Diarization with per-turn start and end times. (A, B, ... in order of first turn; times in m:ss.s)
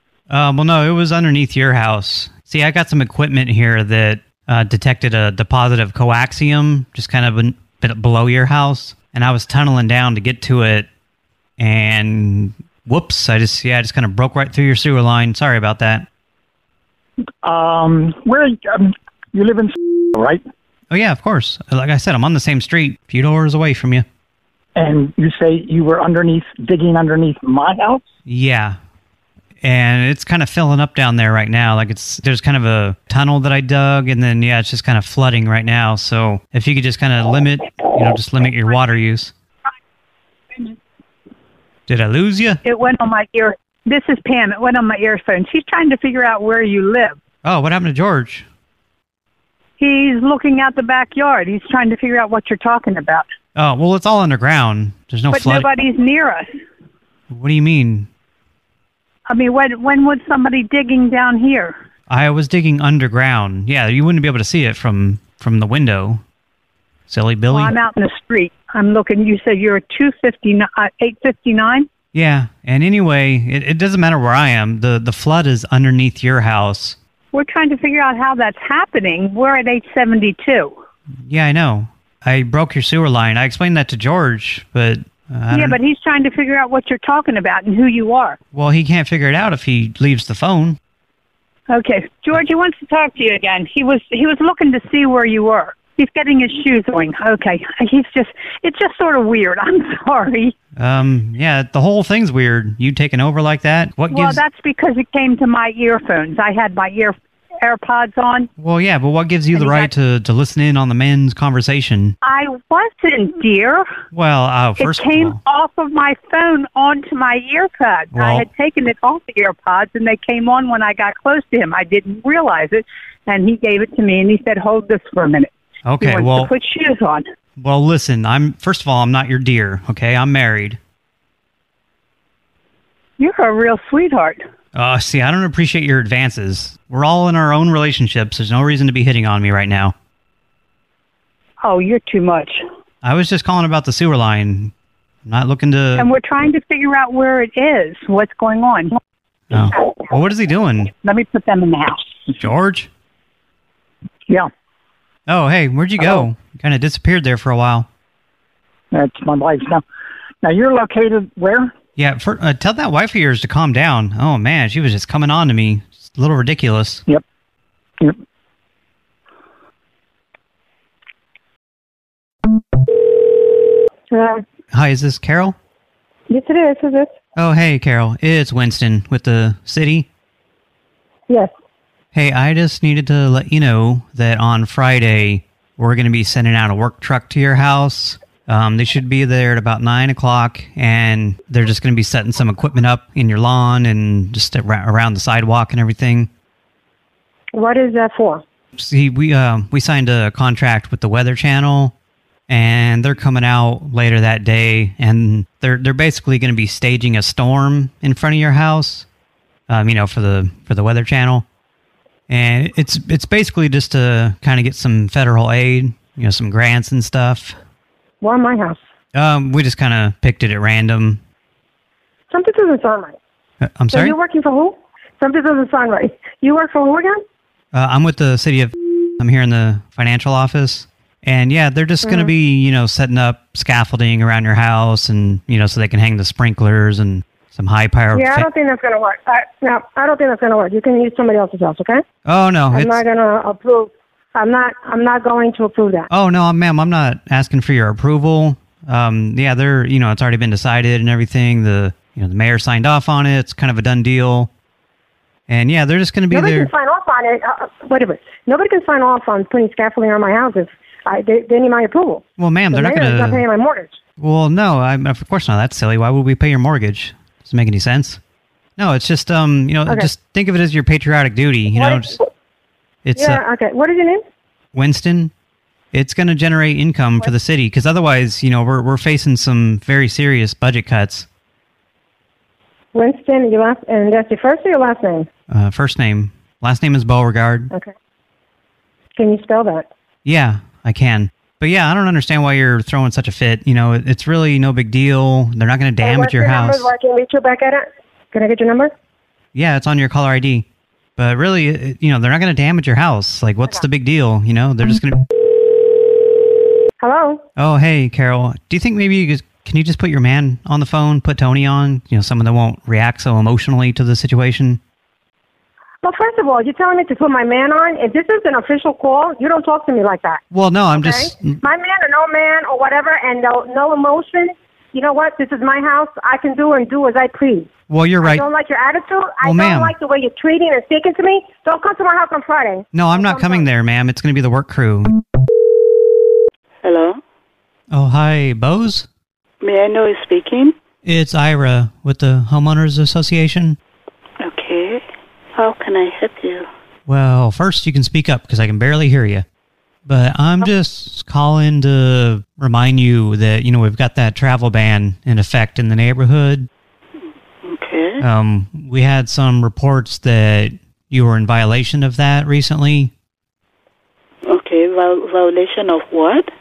0:00.3-0:10.9 A
0:11.6-0:16.1 A
0:17.4-0:20.4 B
0:20.9-0:24.0 A
0:24.8-0:28.1 B
0:28.2-0:28.8 A
0:29.6-0:39.3 A
0:41.9-0:42.6 A
0:42.6-0:47.2 C
0:47.4-0:48.4 A
0:49.8-0:53.3 C
0:53.5-0:55.7 A
0:55.3-0:56.5 C
0:57.3-0:58.1 A
0:59.3-1:01.8 C
1:02.1-1:06.2 A
1:07.1-1:07.8 A
1:07.5-1:11.9 C
1:12.1-1:17.0 A
1:17.3-1:20.8 C
1:21.2-1:25.8 A
1:25.5-1:28.4 C
1:28.5-1:30.8 A
1:31.7-1:40.5 C
1:40.8-1:44.4 A
1:44.1-1:48.5 C
1:48.6-1:52.2 A
1:49.5-1:49.9 C
1:52.2-1:53.9 C
1:54.1-1:55.4 A
1:54.8-2:07.2 C
1:58.1-1:58.5 A
2:05.8-2:06.5 A
2:07.6-2:10.8 A
2:13.2-2:14.4 C
2:14.7-2:19.9 A
2:21.6-2:22.6 C
2:23.0-2:24.7 A
2:25.2-2:26.1 A
2:26.0-2:29.0 C
2:29.5-2:30.9 A
2:31.0-2:32.1 C
2:32.4-2:32.9 A
2:35.3-2:37.9 A
2:36.0-2:36.2 B
2:38.9-2:39.8 B
2:40.4-2:41.7 B
2:42.0-2:47.0 A
2:54.1-2:54.4 D
2:54.7-2:55.6 A
2:56.3-2:57.2 D
2:57.3-3:00.1 A
3:02.1-3:16.3 A
3:17.5-3:18.4 D
3:18.8-3:21.9 A
3:22.5-3:29.0 A
3:29.7-3:31.4 A
3:32.3-3:37.6 A
3:38.2-3:38.8 D
3:39.1-3:41.2 A
3:42.3-3:43.2 D
3:43.6-3:44.1 A
3:43.9-3:47.2 D
3:47.7-3:58.4 A
3:52.0-3:52.3 D
3:58.1-4:02.0 D
4:02.2-4:03.0 A
4:02.7-4:06.1 D
4:06.1-4:14.5 A
4:15.5-4:16.7 A
4:16.3-4:24.0 D
4:22.4-4:23.4 A
4:24.2-4:28.2 A
4:28.8-4:32.2 A
4:31.7-4:32.3 D
4:33.0-4:33.4 A
4:33.2-4:34.2 D
4:34.7-4:35.3 A
4:35.9-4:41.3 A
4:42.9-4:45.3 D
4:45.5-4:47.7 A
4:49.2-4:49.9 D
4:50.2-4:56.9 A
4:56.0-4:58.9 D
4:59.5-5:00.6 A
5:01.2-5:05.2 A
5:07.0-5:07.4 D
5:07.6-5:14.8 A
5:16.0-5:20.4 D
5:20.5-5:21.6 A
5:20.9-5:33.6 D
5:27.9-5:28.4 A
5:29.4-5:29.9 A
5:32.9-5:35.2 A
5:36.8-5:37.2 E
5:37.9-5:39.1 A
5:39.6-5:40.7 E
5:41.0-5:43.8 A
5:44.4-5:45.0 E
5:45.6-5:46.7 E
5:47.1-5:49.4 A
5:50.0-5:56.7 A
5:57.6-5:58.2 E
5:58.2-6:03.1 A
6:04.5-6:06.5 E